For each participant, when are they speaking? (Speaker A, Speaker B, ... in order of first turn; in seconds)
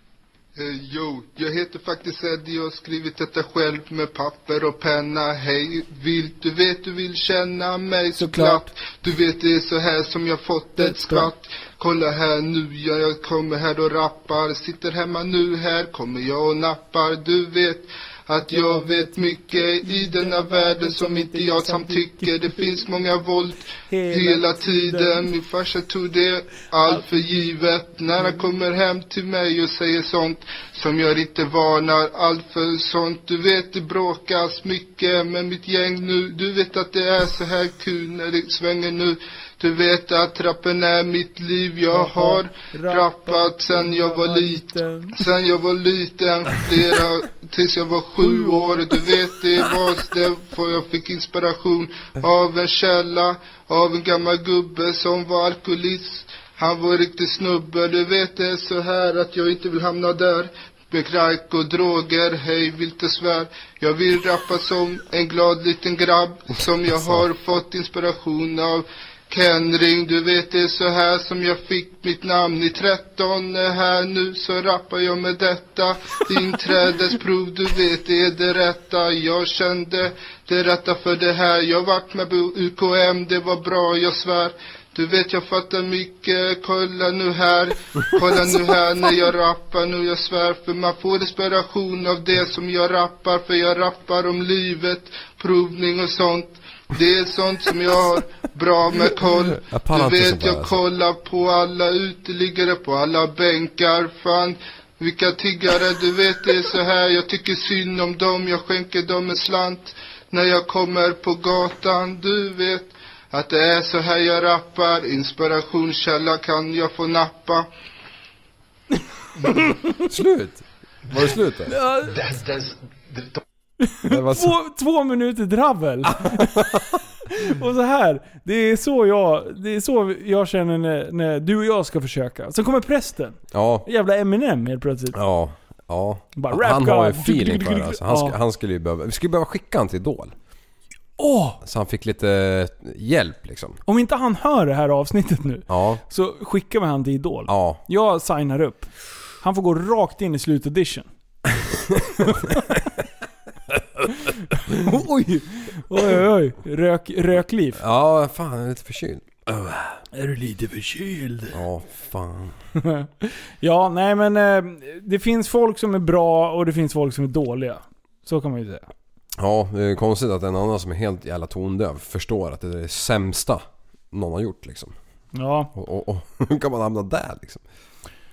Speaker A: 0.6-117.7
Speaker B: 8.2-8.7, 10.8-11.3, 18.5-22.9, 23.4-25.3, 26.8-27.5, 41.9-45.1, 48.2-49.0, 121.7-122.2, 123.8-126.6, 127.3-135.2, 136.4-138.4, 141.2-141.6, 143.9-151.1, 152.3-152.6, 154.1-157.8, 160.1-161.6, 162.8-168.9, 175.3-175.7
Speaker C: 99.3-100.7, 120.1-121.8, 124.1-124.6, 126.1-127.0, 133.5-133.9, 135.1-140.3, 141.6-143.8, 145.7-146.0, 147.5-147.8, 157.8-160.0, 161.5-162.6, 169.4-174.9, 175.8-177.6